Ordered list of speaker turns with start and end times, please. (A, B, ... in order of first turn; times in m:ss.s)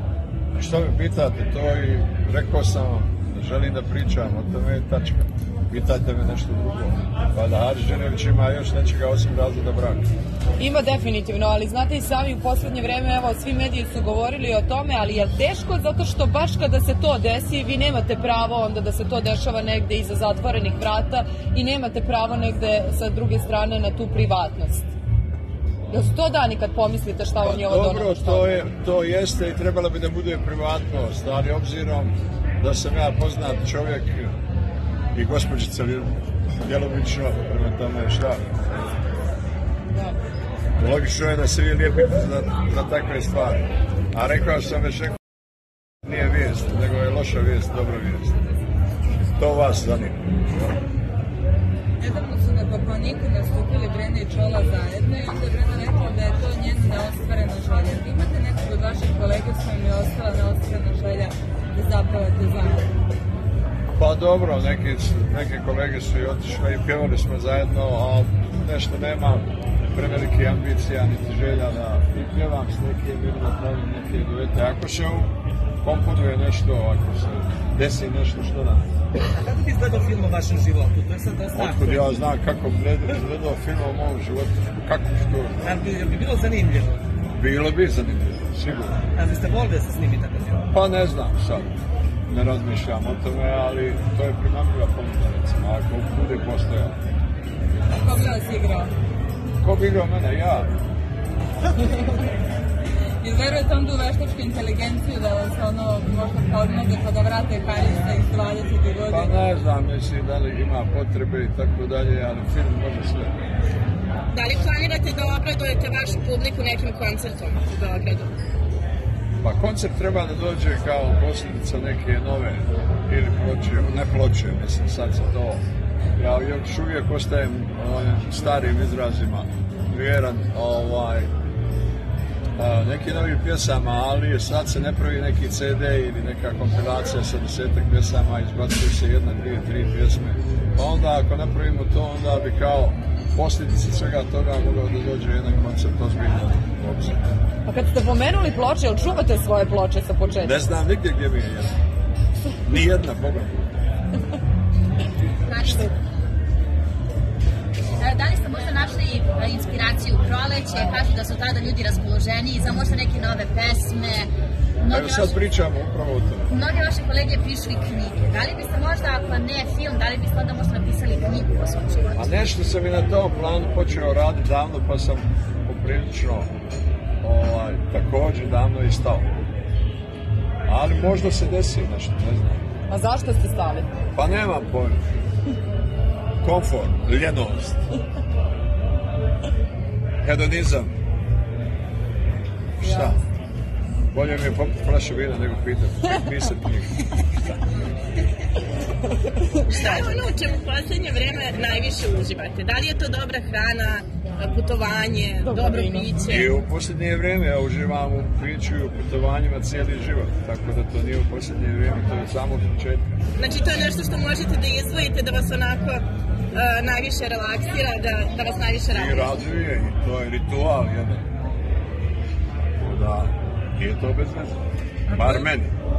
0:00.6-0:10.1 A
0:10.6-0:24.9 B
0:25.9-0:28.4 B
0:27.4-0:34.3 A
0:35.1-0:38.4 A
0:40.8-0:45.2 A
0:46.0-0:48.4 A
0:49.2-0:50.7 A
0:52.0-1:02.9 C
1:04.0-1:15.3 A
1:15.8-1:18.9 A
1:19.3-1:22.0 D
1:21.5-1:25.8 A
1:25.6-1:27.0 D
1:27.3-1:29.0 A
1:29.2-1:30.6 D
1:30.7-1:31.8 A
1:32.3-1:37.0 A
1:38.0-1:38.9 C
1:39.6-1:40.7 A
1:41.8-1:42.1 C
1:43.2-1:49.3 C
1:49.1-1:53.3 A
1:54.3-1:58.3 E
1:59.4-2:05.6 A
2:06.2-2:11.3 A
2:12.6-2:27.2 A
2:27.7-2:30.8 B
2:30.4-2:31.8 A
2:32.6-2:33.8 A
2:35.5-2:35.8 F
2:38.0-2:44.3 F
2:44.8-2:45.4 F
2:44.9-2:46.5 A
2:46.5-2:52.2 F
2:52.1-2:56.5 A
2:57.2-2:59.3 A
3:00.7-3:02.6 A
3:02.9-3:03.9 B
3:04.2-3:05.0 A
3:06.4-3:07.8 A
3:10.2-3:10.9 A
3:12.8-3:13.2 A
3:12.8-3:13.2 B
3:14.1-3:17.0 A
3:19.7-3:26.5 E
3:19.8-3:20.1 D
3:25.4-3:26.1 B
3:26.2-3:33.2 A
3:33.4-3:39.3 E
3:38.9-3:41.3 A
3:42.8-3:44.6 A
3:45.1-3:45.5 C
3:45.1-3:45.8 A